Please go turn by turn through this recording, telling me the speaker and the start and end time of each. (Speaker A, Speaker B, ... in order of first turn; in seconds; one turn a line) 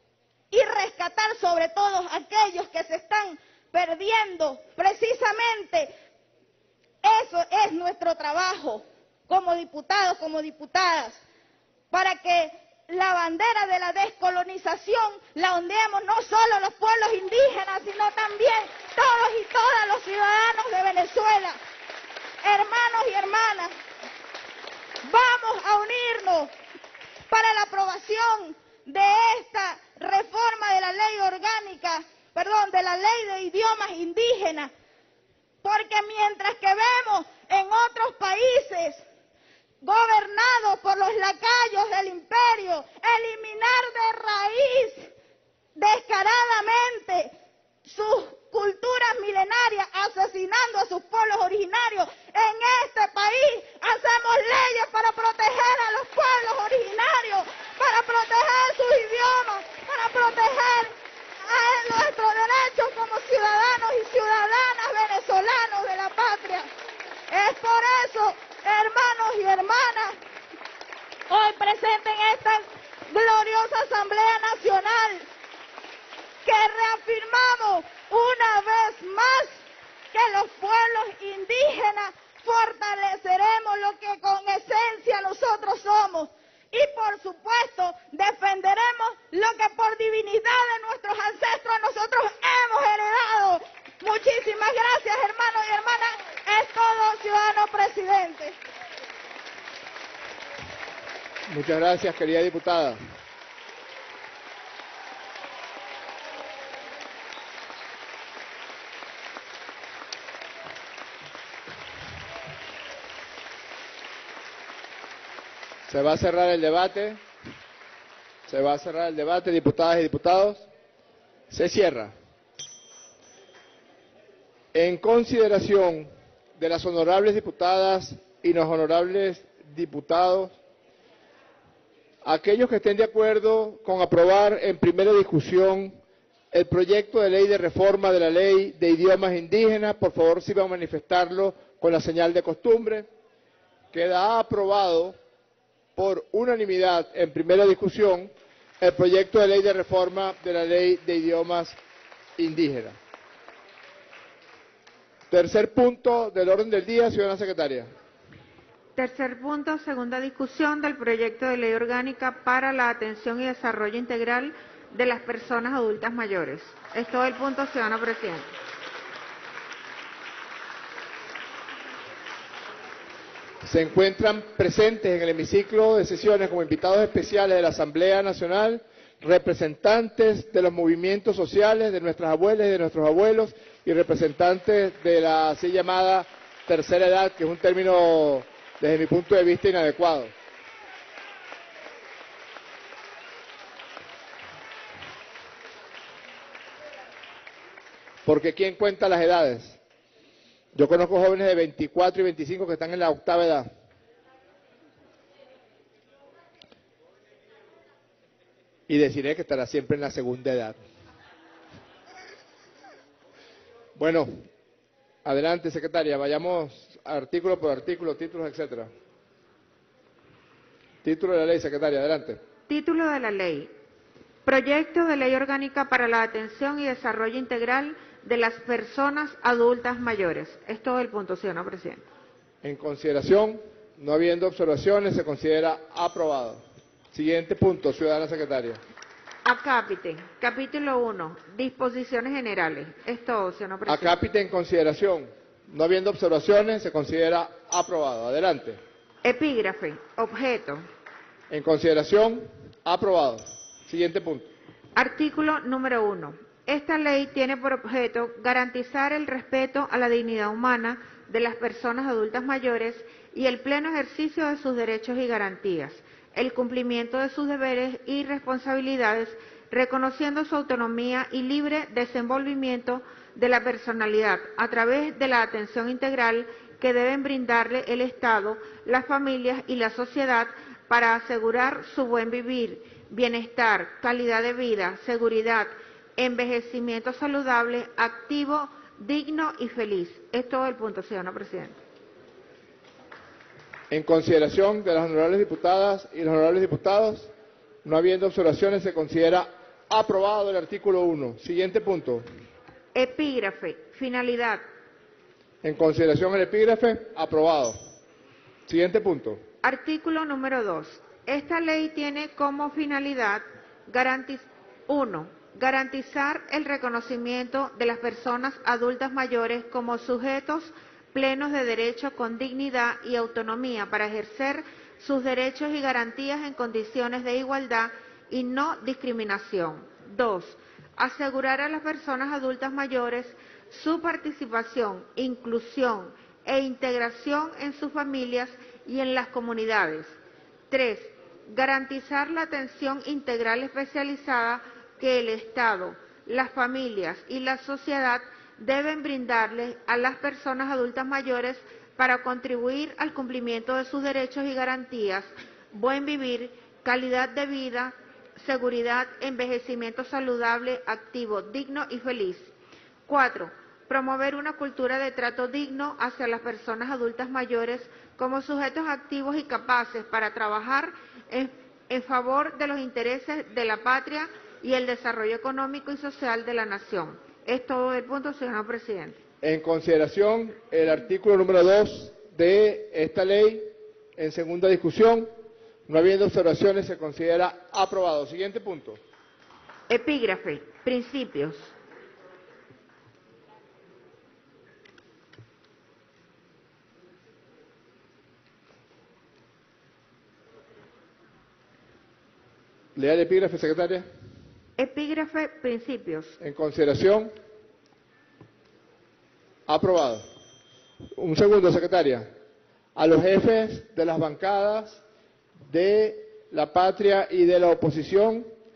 Speaker A: 0.5-5.9
Speaker A: 7.0-11.2
Speaker A: 11.9-21.6
Speaker A: 22.4-23.7
Speaker A: 25.0-26.5
Speaker A: 27.3-34.7
Speaker A: 35.6-39.0
Speaker A: 39.8-45.1
Speaker A: 45.8-66.7
Speaker A: 67.3-70.2
Speaker A: 71.3-75.3
Speaker A: 76.4-98.5
Speaker B: 101.5-103.0
Speaker B: 115.8-117.2
Speaker B: 118.5-120.7
Speaker B: 121.5-122.1
Speaker B: 124.7-130.6
Speaker B: 132.2-136.0
Speaker B: 136.5-143.1
Speaker B: 143.9-145.2
Speaker B: 145.9-151.8
Speaker B: 152.4-153.0
Speaker B: 155.3-157.9
Speaker C: 158.9-168.5
Speaker B: 173.6-190.3
Speaker B: 198.2-199.8
Speaker B: 200.7-203.7
Speaker B: 208.9-210.8
Speaker B: 213.9-214.3
Speaker B: 215.2-218.9
Speaker B: 221.0-222.4
Speaker C: 222.7-223.7
Speaker C: 224.4-232.0
Speaker B: 232.6-238.8
Speaker C: 239.4-244.2
Speaker B: 243.9-248.8
Speaker C: 249.2-250.8
Speaker B: 251.5-254.5
Speaker C: 254.9-291.8
Speaker B: 293.9-297.3
Speaker B: 297.8-302.2
Speaker C: 302.9-304.6
Speaker B: 305.6-307.8
Speaker B: 308.7-309.4
Speaker C: 309.6-340.1
Speaker C: 340.7-362.5
Speaker C: 363.1-379.2
Speaker B: 379.4-385.3
Speaker B: 385.9-389.0
Speaker C: 389.9-391.7
Speaker B: 402.9-404.1
Speaker C: 404.8-406.4
Speaker B: 406.4-407.3
Speaker B: 409.7-410.3
Speaker B: 411.1-412.3
Speaker B: 412.9-415.0
Speaker B: 415.7-418.5